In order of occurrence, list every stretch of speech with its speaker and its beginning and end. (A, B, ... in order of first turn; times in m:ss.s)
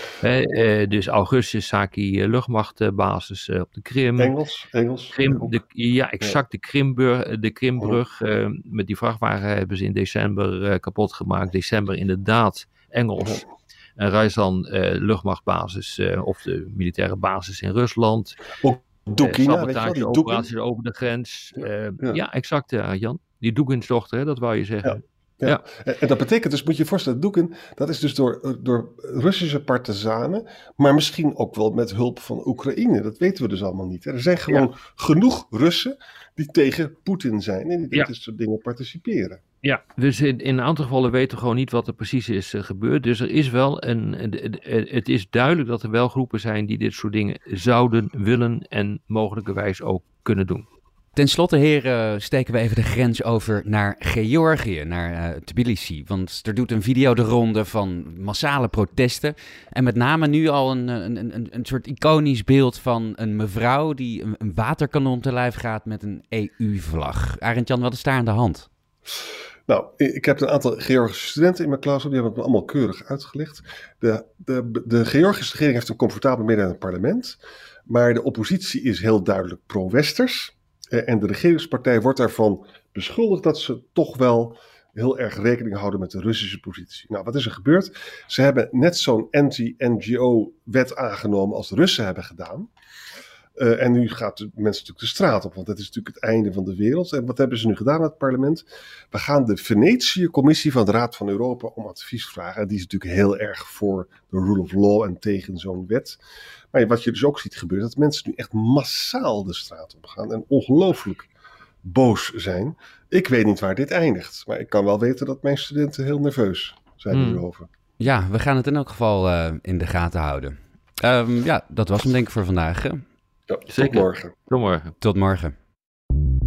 0:00.2-0:04.3 A
0:04.2-0:05.5 B
0:05.1-0:13.4 A
0:14.0-0:18.4 A
0:18.6-0:20.5 B
0:19.2-0:25.6 A
0:21.6-0:22.2 B
0:24.8-0:39.4 B
0:39.6-0:50.6 A
0:51.1-1:08.7 C
1:09.7-1:17.4 B
1:17.9-1:32.7 B
1:33.6-1:46.2 B
1:46.7-1:51.3 B
1:51.8-1:57.7 B
1:57.1-1:57.4 A
1:58.0-2:03.0 C
2:03.5-2:04.3 B
2:03.7-2:04.9 A
2:05.0-2:05.5 C